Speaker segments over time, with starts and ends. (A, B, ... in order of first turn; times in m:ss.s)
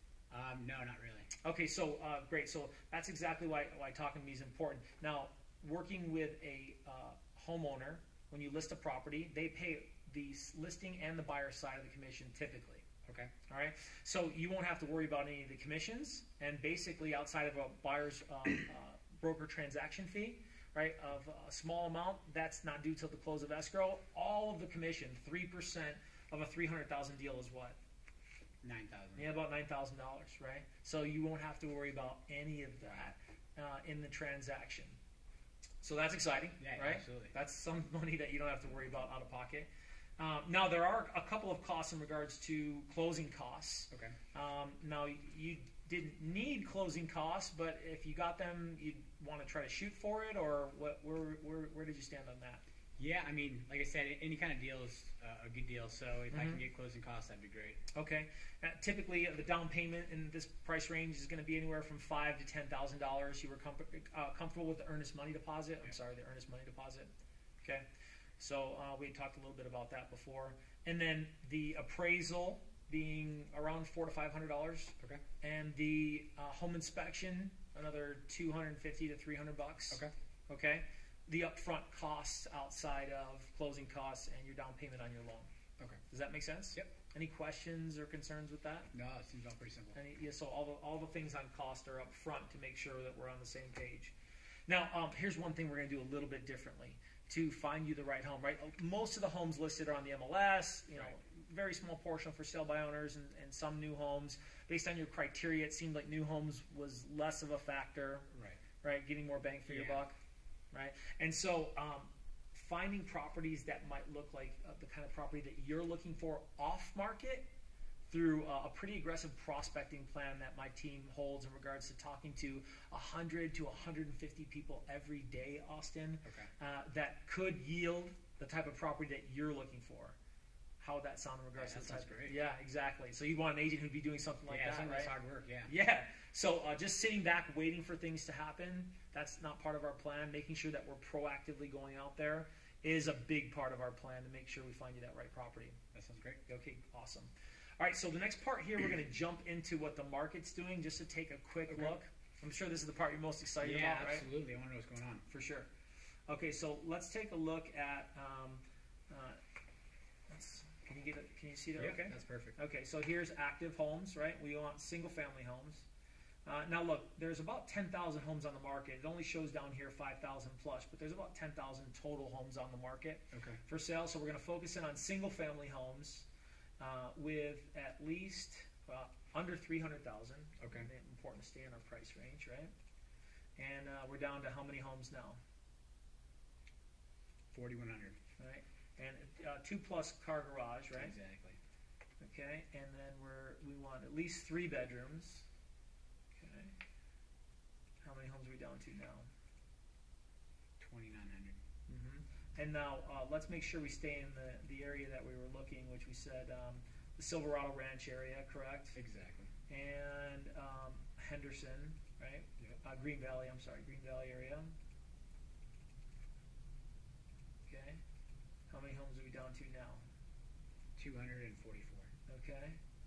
0:00.3-0:01.3 A
0:01.4-0:12.8 B
0:13.0-0:13.3 A
0:13.5-0:27.8 B
0:28.6-0:29.3 A
0:29.2-0:35.0 B
0:35.8-0:52.6 B
0:36.6-0:37.3 A
0:43.9-0:44.2 A
0:53.0-0:57.8 A
0:56.3-0:56.6 B
0:57.9-1:07.1 B
1:08.4-1:25.5 B
1:26.1-1:28.9 B
1:28.9-1:30.0 A
1:29.9-1:34.1 B
1:34.7-1:48.3 B
1:48.3-1:48.6 A
1:48.8-1:50.2 B
1:49.7-1:50.0 A
1:50.7-1:57.5 B
1:58.1-2:10.2 B
2:06.2-2:06.5 A
2:10.8-2:15.1 B
2:11.6-2:12.4 A
2:14.5-2:15.7 A
2:15.7-2:25.8 B
2:25.9-2:26.4 A
2:26.5-2:34.2 B
2:31.7-2:31.9 A
2:33.6-2:35.2 A
2:35.3-2:35.7 B
2:36.3-2:39.4 B
2:40.3-2:45.8 B
2:41.8-2:42.6 A
2:46.4-2:56.3 B
2:53.3-2:53.6 A
2:56.8-3:02.7 B
3:00.6-3:00.9 A
3:03.6-3:05.4 B
3:07.5-3:08.2 A
3:08.4-3:11.1 B
3:10.9-3:11.6 A
3:12.2-3:15.5 B
3:16.4-3:16.7 B
3:18.0-3:19.3 B
3:20.8-3:21.6 A
3:21.9-3:29.0 B
3:28.9-3:29.5 A
3:29.7-3:34.7 B
3:37.7-3:38.0 B
3:38.7-3:40.0 B
3:41.0-3:42.1 A
3:42.3-3:42.8 B